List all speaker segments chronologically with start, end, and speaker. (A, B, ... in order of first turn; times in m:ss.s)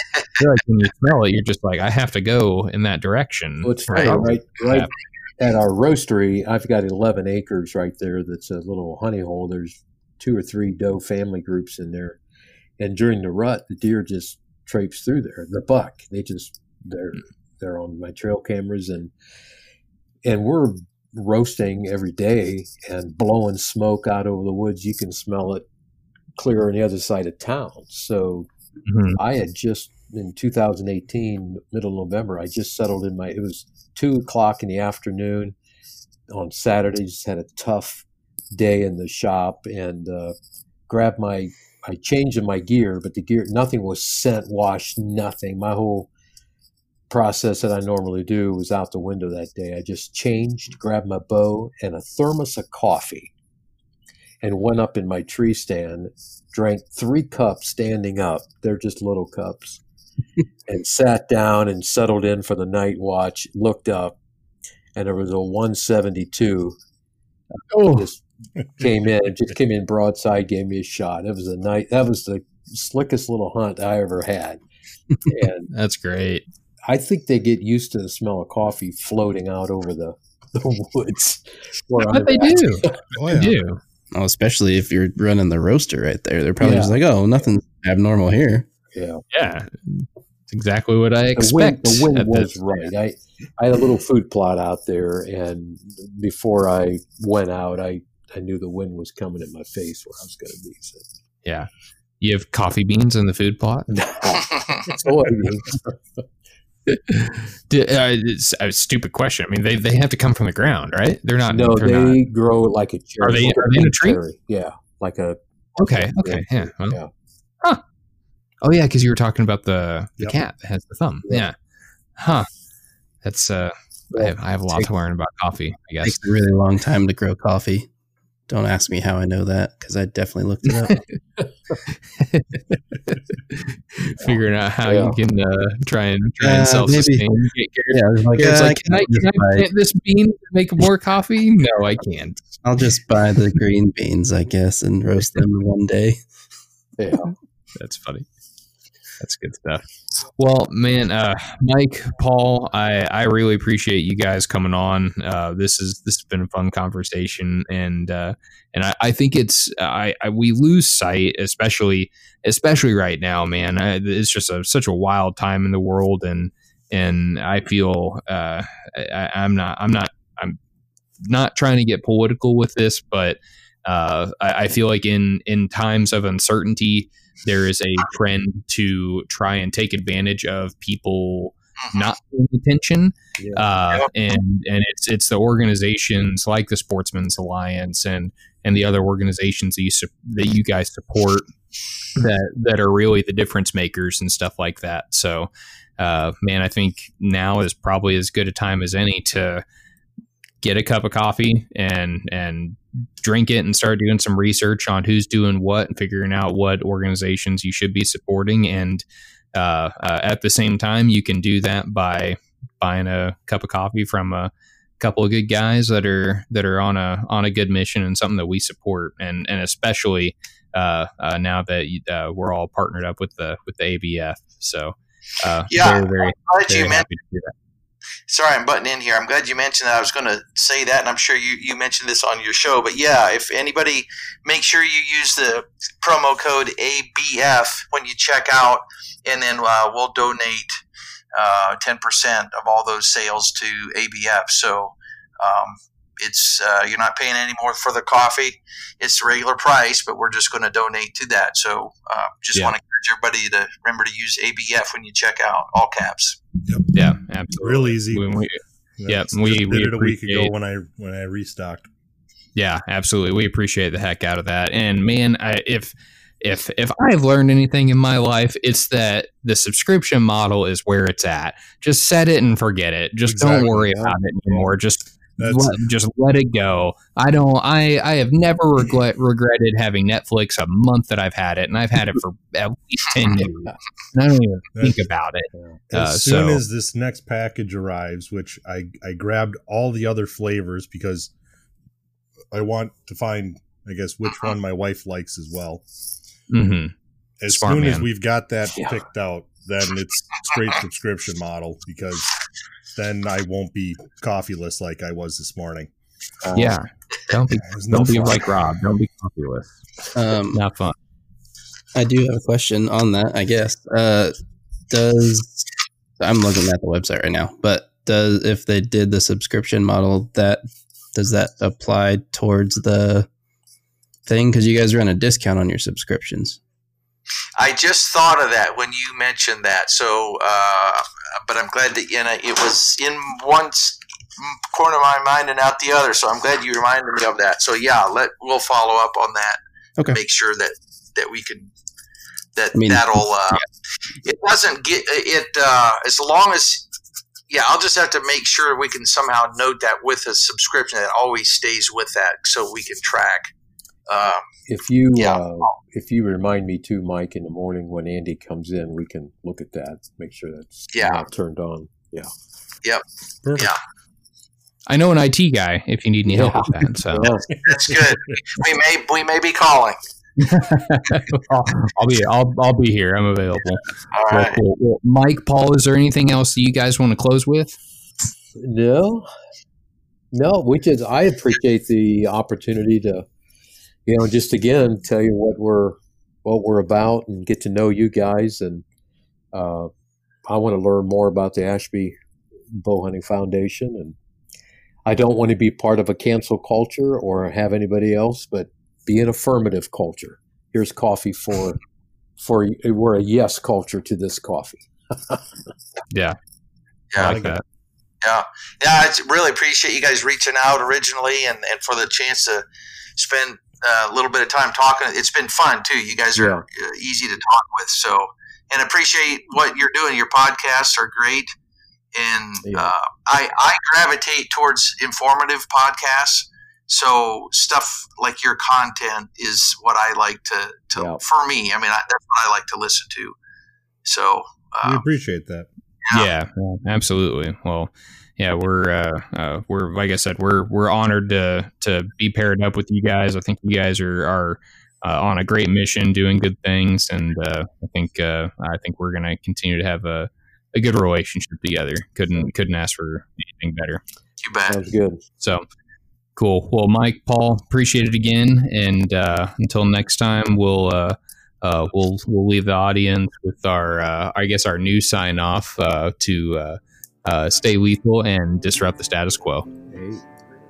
0:00.4-0:04.9 A
0:03.6-0:12.2 B
0:12.8-0:19.1 B
0:20.2-0:25.6 B
0:26.4-0:28.5 B
0:28.9-0:29.2 A
0:29.1-0:35.5 B
0:36.3-0:40.3 B
0:40.9-0:46.1 B
0:47.1-0:53.3 B
0:54.4-0:59.8 B
1:00.6-1:04.2 B
1:04.9-1:06.8 B
1:07.7-1:08.1 A
1:07.8-1:08.2 B
1:08.8-1:14.6 B
1:15.2-1:15.7 B
1:15.7-1:16.4 A
1:16.8-1:23.0 B
1:22.0-1:23.8 A
1:23.1-1:23.6 C
1:24.1-1:28.7 D
1:26.6-1:26.9 B
1:28.9-1:29.2 B
1:29.3-1:32.7 A
1:31.4-1:41.0 B
1:42.2-1:43.9 A
1:43.9-1:46.0 B
1:44.3-1:44.9 E
1:46.9-1:52.2 A
1:51.5-1:57.1 B
1:53.2-1:54.2 A
1:55.8-1:57.0 A
1:58.6-2:01.5 A
2:02.2-2:02.5 A
2:03.2-2:06.2 A
2:04.1-2:04.8 B
2:06.0-2:07.9 D
2:08.5-2:11.0 D
2:10.7-2:11.0 A
2:12.2-2:22.5 A
2:14.8-2:15.2 B
2:16.4-2:17.2 D
2:17.9-2:19.7 D
2:22.6-2:26.2 D
2:27.0-2:27.3 B
2:27.2-2:28.3 A
2:29.2-2:50.6 A
2:51.2-3:11.5 A
3:01.8-3:02.1 E
3:03.4-3:03.6 B
3:12.2-3:19.6 A
3:20.6-3:47.5 A
3:45.7-3:47.0 E
3:48.3-4:00.7 E
4:01.3-4:16.4 E
4:16.9-4:20.5 A
4:17.6-4:18.4 C
4:19.0-4:21.9 C
4:22.6-4:46.6 A
4:33.3-4:33.8 C
4:33.7-4:34.7 B
4:35.4-4:35.8 C
4:43.4-4:43.7 B
4:44.8-4:45.0 C
4:45.5-4:45.8 B
4:45.9-4:51.3 C
4:52.5-4:55.8 C
4:54.2-4:54.5 E
4:56.5-4:56.9 A
4:57.4-5:02.3 C
4:57.5-4:58.0 A
4:58.8-4:59.0 B
5:02.9-5:05.9 C
5:06.4-5:06.8 B
5:06.5-5:09.8 A
5:07.6-5:08.4 C
5:10.1-5:10.6 D
5:10.5-5:10.9 A
5:11.9-5:14.3 D
5:14.9-5:15.7 D
5:16.2-5:20.6 D
5:21.1-5:23.3 D
5:24.2-5:26.6 D
5:27.6-5:41.7 E
5:42.6-5:43.6 E
5:42.7-5:43.6 D
5:44.2-5:46.9 E
5:47.5-5:53.5 E
5:54.1-5:54.4 E
5:54.7-6:02.3 B
5:55.1-5:55.7 E
6:00.9-6:01.2 E
6:03.4-6:03.7 C
6:04.9-6:07.4 A
6:06.3-6:07.5 B
6:07.5-6:07.9 C
6:07.6-6:10.0 E
6:10.4-6:17.8 A
6:14.1-6:14.6 E
6:18.6-6:19.3 B
6:20.3-6:23.2 B
6:24.1-6:28.8 B
6:29.5-6:29.9 B
6:30.5-6:32.2 B
6:32.7-6:34.2 B
6:35.0-6:41.8 B
6:42.4-6:45.5 B
6:46.1-6:46.4 A
6:47.2-6:47.6 A
6:47.2-6:47.6 C
6:48.2-6:52.6 E
6:53.2-7:01.5 E
6:56.4-6:56.6 B
7:02.1-7:13.4 E
7:02.6-7:02.9 B
7:11.0-7:11.2 B
7:14.0-7:15.0 E
7:14.8-7:15.7 C
7:16.1-7:34.0 A
7:34.4-7:34.8 E
7:34.7-7:35.2 B
7:35.4-7:35.6 A
7:36.4-7:49.7 A
7:49.9-7:50.2 B